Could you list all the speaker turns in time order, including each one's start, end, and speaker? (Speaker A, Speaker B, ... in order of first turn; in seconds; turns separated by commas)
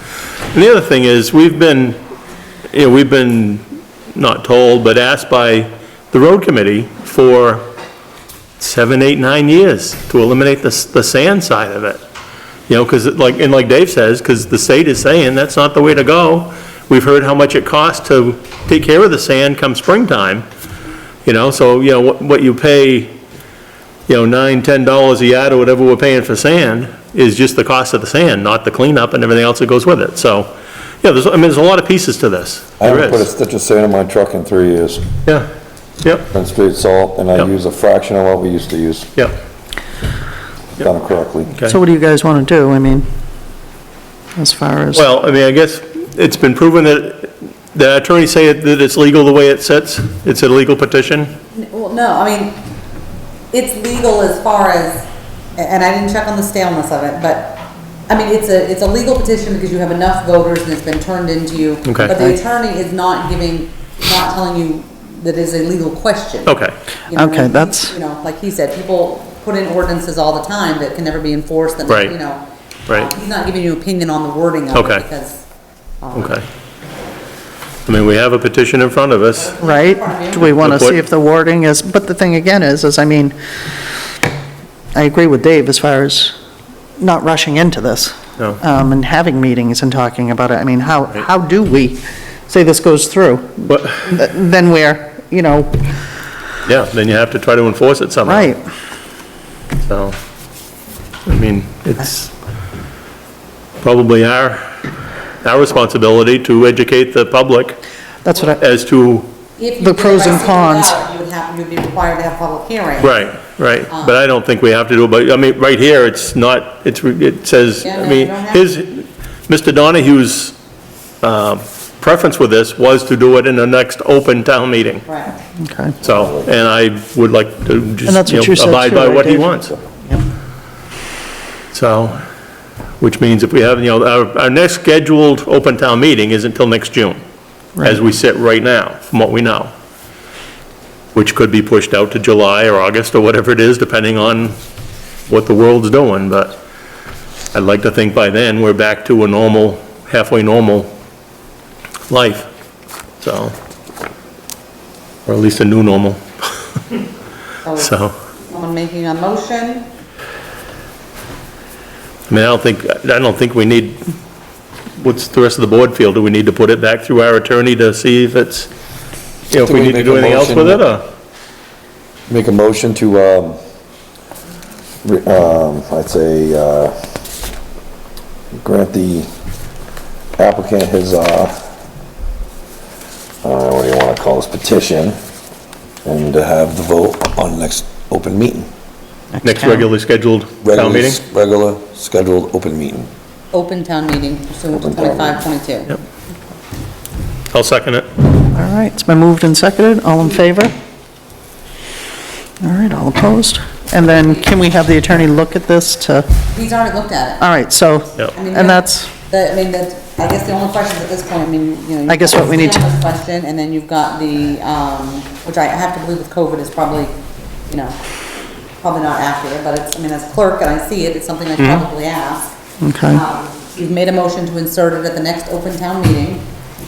Speaker A: 0.5-2.0, Speaker A: 2.7-3.6, Speaker A: 4.1-7.6, Speaker A: 8.6-12.0, Speaker A: 12.7-20.4, Speaker A: 21.2-23.1, Speaker A: 24.1-33.3, Speaker B: 32.8-35.1, Speaker A: 36.0-36.3, Speaker B: 36.3-39.1, Speaker B: 40.8-41.5, Speaker A: 41.5-41.8, Speaker C: 41.6-43.1, Speaker C: 44.4-45.0, Speaker A: 44.9-51.3, Speaker D: 51.5-52.6, Speaker D: 53.5-75.5, Speaker A: 61.8-62.1, Speaker C: 62.1-62.4, Speaker A: 66.5-66.7, Speaker C: 67.1-67.9, Speaker A: 71.9-72.2, Speaker A: 74.7-75.0, Speaker D: 76.0-76.4, Speaker A: 76.1-76.4, Speaker A: 77.8-79.5, Speaker D: 79.3-80.7, Speaker C: 79.6-83.3, Speaker A: 80.4-81.0, Speaker C: 84.9-86.3, Speaker C: 87.0-95.8, Speaker A: 93.7-94.1, Speaker A: 96.7-98.5, Speaker C: 98.2-98.6, Speaker A: 99.8-100.2, Speaker A: 101.3-102.3, Speaker A: 103.8-104.6, Speaker A: 105.4-107.8, Speaker C: 108.2-108.6, Speaker A: 108.3-109.3, Speaker D: 109.6-113.2, Speaker C: 109.8-110.9, Speaker A: 113.0-120.5, Speaker D: 113.9-114.2, Speaker D: 117.8-118.7, Speaker A: 121.2-125.0, Speaker D: 125.1-125.3, Speaker C: 125.6-125.9, Speaker A: 126.0-129.8, Speaker C: 128.1-130.2, Speaker A: 131.7-132.2, Speaker A: 133.0-137.2, Speaker A: 137.8-139.7, Speaker A: 141.1-144.6, Speaker A: 145.3-146.6, Speaker A: 147.5-150.9, Speaker A: 152.1-152.5, Speaker A: 153.2-153.5, Speaker A: 155.2-156.5, Speaker D: 157.6-157.9, Speaker A: 157.8-158.1, Speaker D: 158.5-159.9, Speaker A: 162.3-164.0, Speaker A: 165.0-168.7, Speaker A: 169.5-171.0, Speaker B: 169.6-170.8, Speaker B: 172.3-173.6, Speaker B: 175.0-176.9, Speaker B: 178.6-179.3, Speaker B: 180.4-181.5, Speaker B: 183.4-185.2, Speaker B: 186.0-188.7, Speaker C: 189.3-189.9, Speaker A: 189.4-191.2, Speaker B: 190.6-193.1, Speaker D: 193.5-195.9, Speaker B: 194.7-195.4, Speaker A: 197.5-198.1, Speaker C: 198.5-200.7, Speaker C: 202.6-206.3, Speaker D: 206.5-207.4, Speaker C: 207.4-209.1, Speaker D: 208.3-217.1, Speaker C: 212.1-212.8, Speaker D: 217.7-218.0, Speaker D: 218.8-222.5, Speaker C: 222.8-223.2, Speaker D: 223.1-226.4